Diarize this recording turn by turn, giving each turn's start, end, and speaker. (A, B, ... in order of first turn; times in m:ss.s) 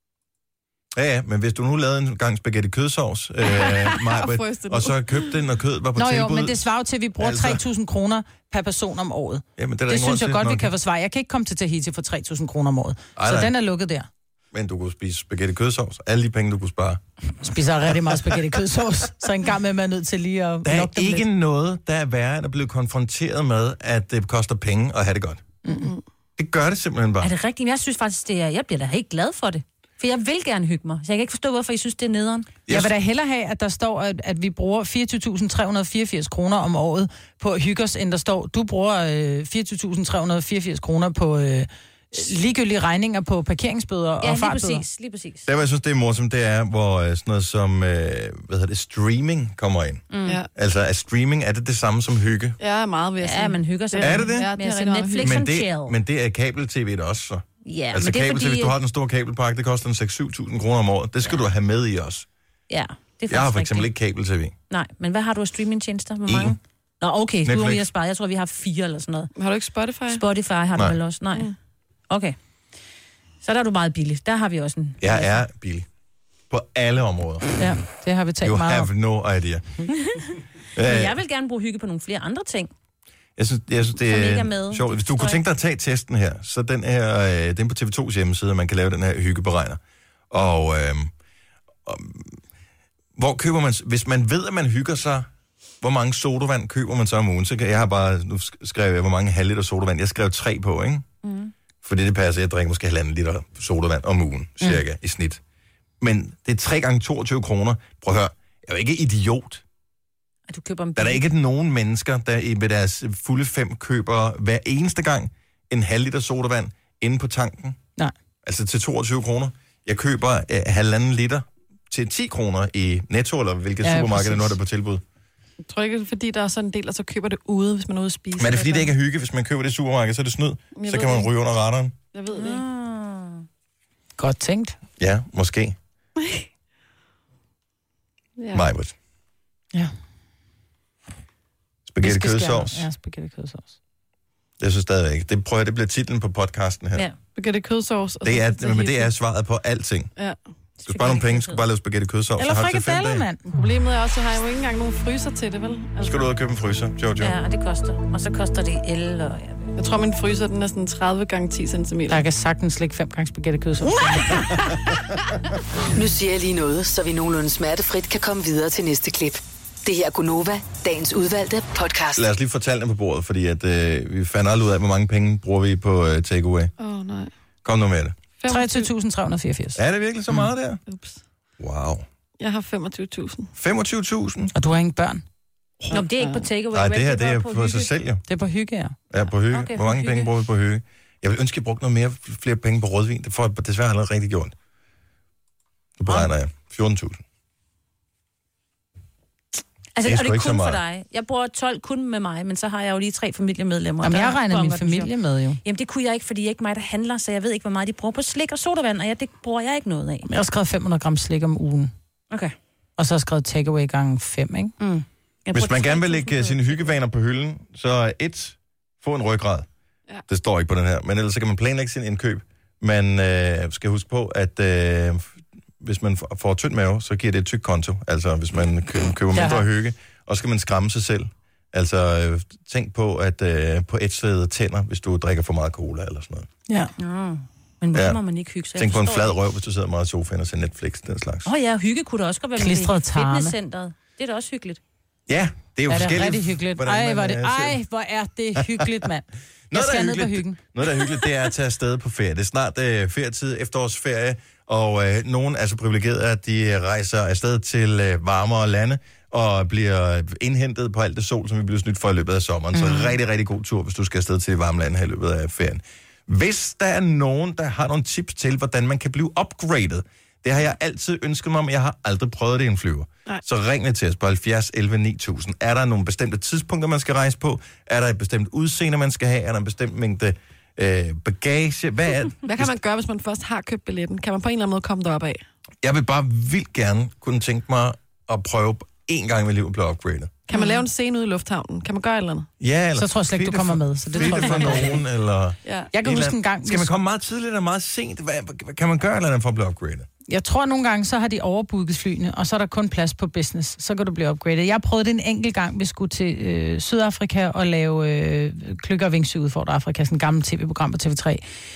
0:01.0-0:06.7 A
0:03.4-0:05.3 B
0:06.0-0:14.1 C
0:07.2-0:07.6 A
0:09.6-0:10.7 A
0:13.2-0:13.5 A
0:14.5-0:17.0 A
0:17.4-0:21.3 C
0:17.9-0:18.5 A
0:20.6-0:25.4 A
0:25.6-0:25.9 C
0:25.7-0:26.0 B
0:26.4-0:27.3 A
0:27.2-0:32.5 D
0:32.7-0:32.9 A
0:32.7-0:44.8 C
0:44.2-0:45.5 D
0:45.5-0:50.0 A
0:50.1-0:50.4 D
0:50.6-0:52.6 A
0:52.6-0:55.3 B
0:53.2-0:56.0 D
0:54.0-0:54.5 A
0:55.2-1:02.3 A
0:57.6-0:58.8 D
1:02.7-1:03.9 D
1:03.3-1:04.5 A
1:04.7-1:09.3 D
1:06.3-1:06.6 A
1:07.4-1:07.8 A
1:09.4-1:10.2 B
1:10.1-1:11.5 D
1:12.1-1:12.4 D
1:13.4-1:15.4 D
1:15.0-1:15.9 A
1:16.5-1:17.6 A
1:17.6-1:18.9 C
1:18.4-1:19.7 A
1:20.0-1:22.7 D
1:20.8-1:21.2 A
1:23.4-1:29.8 A
1:24.0-1:25.4 D
1:30.3-1:31.1 A
1:31.8-1:32.4 A
1:33.2-1:35.3 A
1:35.8-1:41.1 A
1:41.2-1:41.5 D
1:41.8-1:45.4 A
1:46.0-1:49.6 A
1:50.5-1:51.2 D
1:51.0-1:57.8 A
1:58.4-2:05.0 A
2:03.8-2:04.6 C
2:05.7-2:08.9 B
2:08.4-2:12.0 A
2:10.8-2:11.3 B
2:12.1-2:12.6 B
2:12.3-2:13.4 D
2:14.2-2:14.8 C
2:15.0-2:15.8 A
2:16.2-2:16.4 B
2:18.4-2:18.7 B
2:18.5-2:18.9 A
2:21.9-2:22.9 A
2:22.0-2:23.8 C
2:24.6-2:27.1 A
2:27.4-2:29.1 B
2:28.2-2:30.1 A
2:30.8-2:31.6 D
2:30.9-2:33.3 A
2:32.4-2:33.5 C
2:33.5-2:36.2 B
2:36.0-2:37.4 A
2:37.2-2:39.7 D
2:39.8-2:42.2 B
2:42.1-2:44.6 C
2:45.9-2:52.2 E
2:52.2-2:56.7 A
2:56.8-2:57.3 B
2:57.6-2:58.2 A
2:58.4-2:58.9 B
2:58.5-2:59.8 C
2:59.8-3:00.8 A
3:00.9-3:01.2 B
3:01.6-3:02.1 A
3:02.4-3:03.5 B
3:03.6-3:04.5 A
3:04.5-3:05.2 C
3:05.9-3:06.5 B
3:05.9-3:07.9 D
3:06.7-3:08.2 A
3:08.3-3:09.0 C
3:09.1-3:14.5 A
3:09.5-3:10.3 D
3:16.0-3:17.2 A
3:20.0-3:30.3 D
3:20.0-3:20.8 A
3:24.0-3:25.1 C
3:30.3-3:31.9 C
3:33.0-3:34.7 C
3:34.8-3:36.9 D
3:35.5-3:39.7 A
3:40.3-3:45.3 A
3:45.8-3:56.5 A
3:49.4-3:49.6 C
3:57.0-3:59.4 D
3:57.9-3:58.2 A
3:58.8-4:01.5 A
4:01.4-4:04.8 D
4:02.6-4:03.5 C
4:05.3-4:07.8 A
4:05.9-4:10.6 C
4:08.6-4:08.9 A
4:09.7-4:42.7 A
4:42.4-4:45.4 B
4:45.8-4:50.4 A
4:50.5-4:52.5 B
4:50.5-4:50.8 C
4:52.6-5:00.1 A
4:53.0-4:55.0 C
4:54.2-4:54.8 B
4:55.6-4:55.9 B
4:55.9-4:56.9 C
5:00.3-5:11.4 C